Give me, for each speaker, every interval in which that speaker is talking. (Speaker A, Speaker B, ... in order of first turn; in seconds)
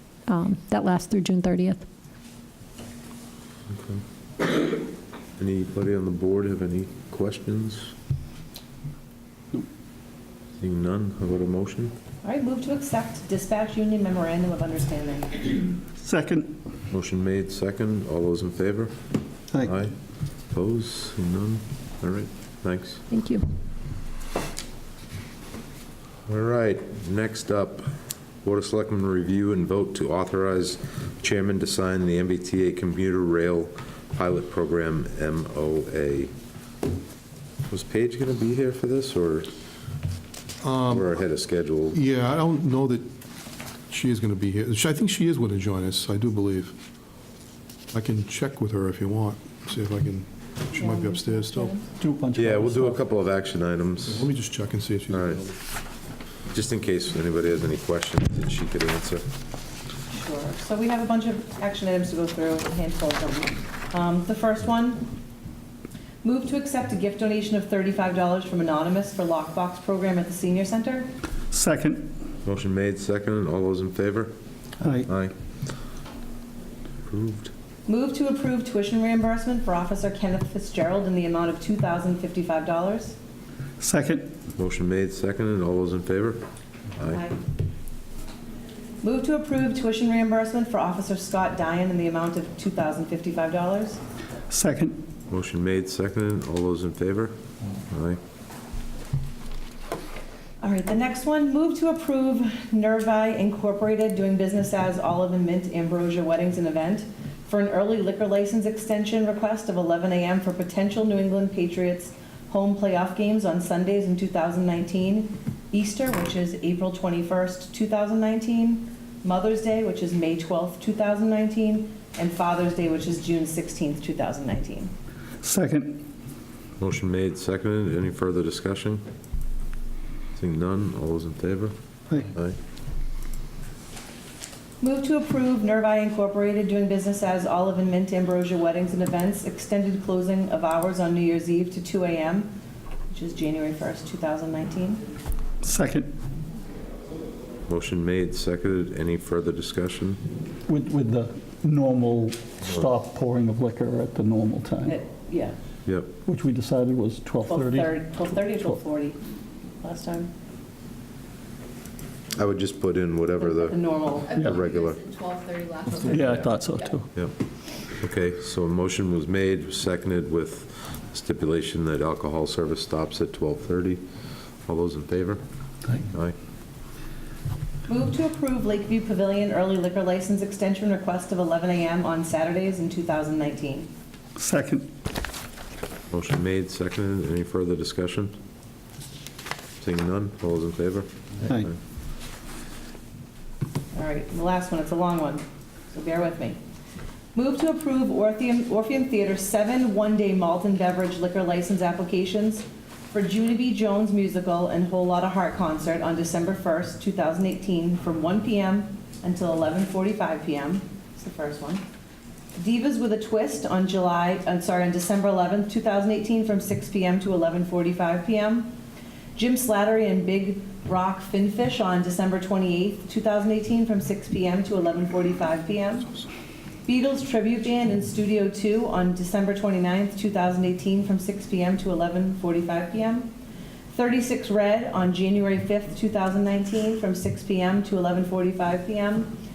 Speaker A: 0.3-1.8, 23.1-23.4
Speaker B: 3.7-4.0, 5.4-7.9, 10.6-11.9, 16.9-18.9, 19.6-19.9, 20.5-23.0, 26.3-27.9, 28.4-36.3, 37.7-39.5, 40.9-42.0, 52.3-54.3, 55.1-55.4, 56.5-59.2, 72.4-74.3, 75.0-75.3, 77.1-77.5, 84.6-86.4, 95.3-97.3, 97.9-98.2, 126.8-129.0, 130.3-132.6, 147.7-150.2, 155.8-156.1, 162.3-163.8, 164.4-165.0, 168.0-174.0, 174.7-175.4, 186.1-188.3, 189.8-191.7
Speaker C: 12.2-15.6, 50.7-51.8, 60.1-65.0, 66.2-71.1, 77.9-83.2, 87.0-87.4, 89.0-94.0, 100.6-124.9, 134.8-142.5, 143.1-145.0, 154.8-155.6, 157.5-159.2, 159.8-160.3, 163.4-164.3, 177.9-183.9, 193.9-196.6, 197.3-211.8, 212.6-218.7, 219.3-226.1, 226.8-233.3, 233.9-239.3
Speaker D: 16.0-16.5, 52.0-53.0, 71.5-72.1, 74.8-75.1, 83.8-84.3, 94.5-95.0, 125.4-126.0, 145.6-146.1, 150.7-155.0, 156.2-158.0, 165.9-167.1, 184.3-184.9
Speaker E: 40.6-41.2, 41.9-43.1, 43.9-46.8, 47.9-51.8, 54.0-55.5
Speaker F: 164.7-166.6